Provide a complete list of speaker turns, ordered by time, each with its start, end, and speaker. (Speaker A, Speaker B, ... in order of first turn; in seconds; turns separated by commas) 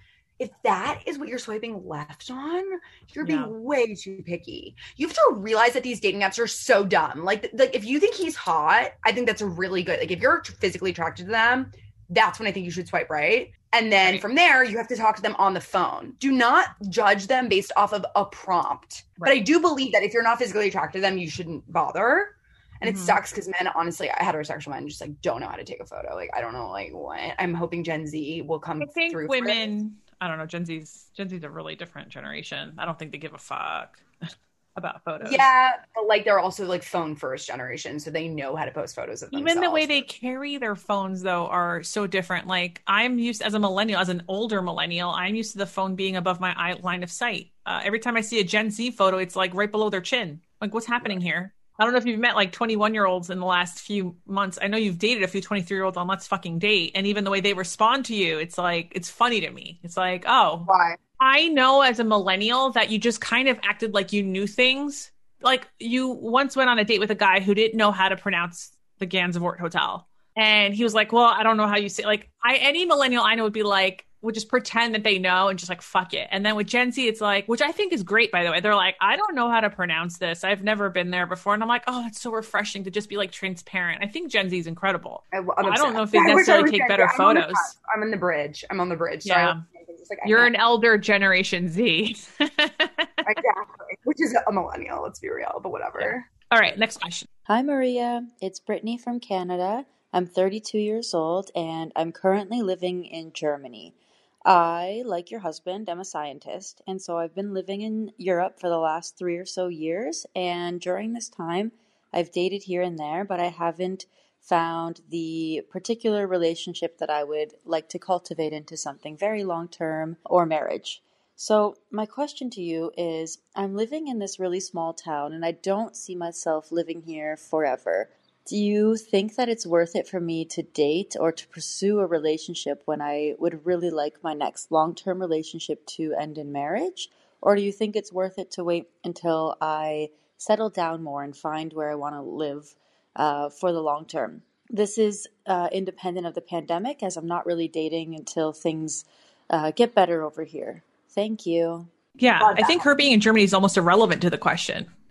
Speaker A: 0.4-29.7, Speaker B: 3.2-3.5, Speaker B: 22.8-23.2, Speaker B: 28.8-34.0, Speaker B: 34.8-35.5, Speaker A: 35.2-40.0, Speaker B: 39.3-87.7, Speaker A: 60.7-61.0, Speaker A: 85.3-90.5, Speaker B: 89.2-89.6, Speaker B: 90.2-93.3, Speaker A: 93.2-96.3, Speaker B: 96.0-97.3, Speaker C: 97.5-151.9, Speaker B: 152.2-154.9, Speaker A: 152.4-152.9